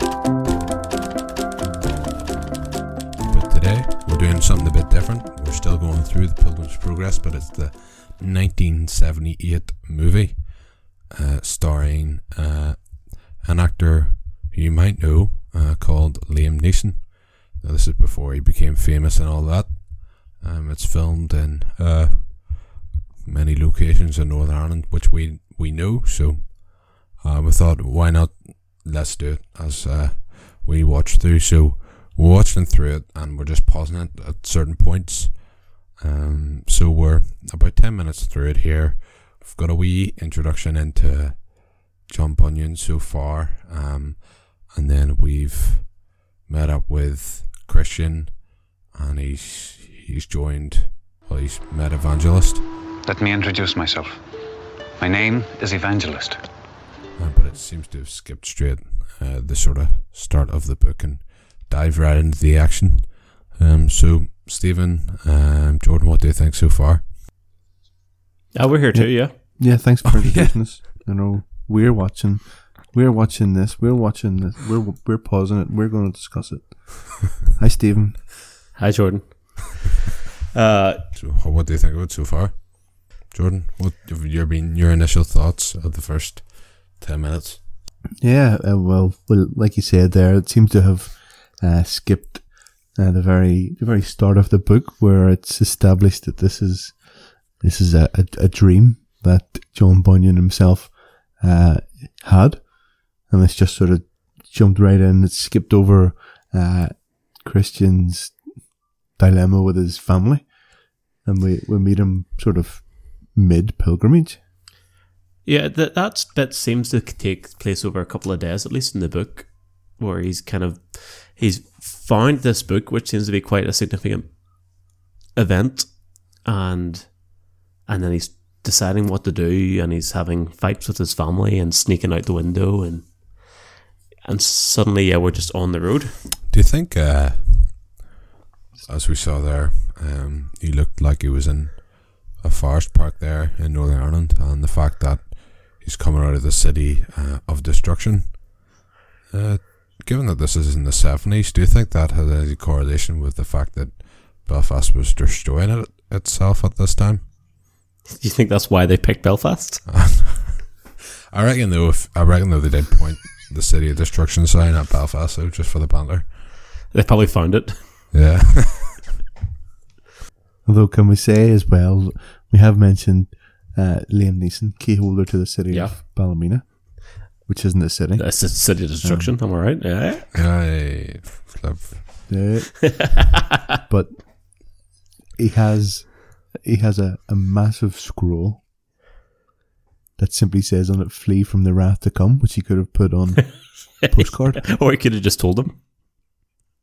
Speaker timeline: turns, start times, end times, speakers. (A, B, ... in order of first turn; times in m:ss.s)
0:03.2-0:52.7 A
0:53.0-0:54.2 B
0:55.0-0:56.4 B
0:57.2-1:07.1 A
1:08.5-1:09.4 C
1:08.9-1:18.3 D
1:10.0-1:10.5 A
1:18.7-1:20.0 C
1:20.5-1:21.0 C
1:21.1-1:27.6 A
1:28.2-1:48.4 D
1:49.2-1:50.5 D
1:51.2-1:54.4 D
1:55.4-2:04.6 C
2:05.3-2:07.3 C
2:07.8-2:13.2 C
2:14.2-2:16.1 C
2:16.5-2:18.0 A
2:18.8-2:28.6 A
2:29.3-2:37.3 A
2:38.1-2:39.8 C
2:39.9-2:40.7 A
2:41.3-2:46.5 A
2:46.9-2:47.8 C
2:48.1-2:49.0 A
2:50.6-2:59.3 D
2:55.7-2:56.0 C
2:58.2-3:00.4 C
3:00.3-3:02.3 A
3:02.3-3:03.4 D
3:02.9-3:03.2 C
3:03.9-3:04.5 D
3:05.4-3:08.6 D
3:10.2-3:14.6 D
3:13.7-3:15.8 C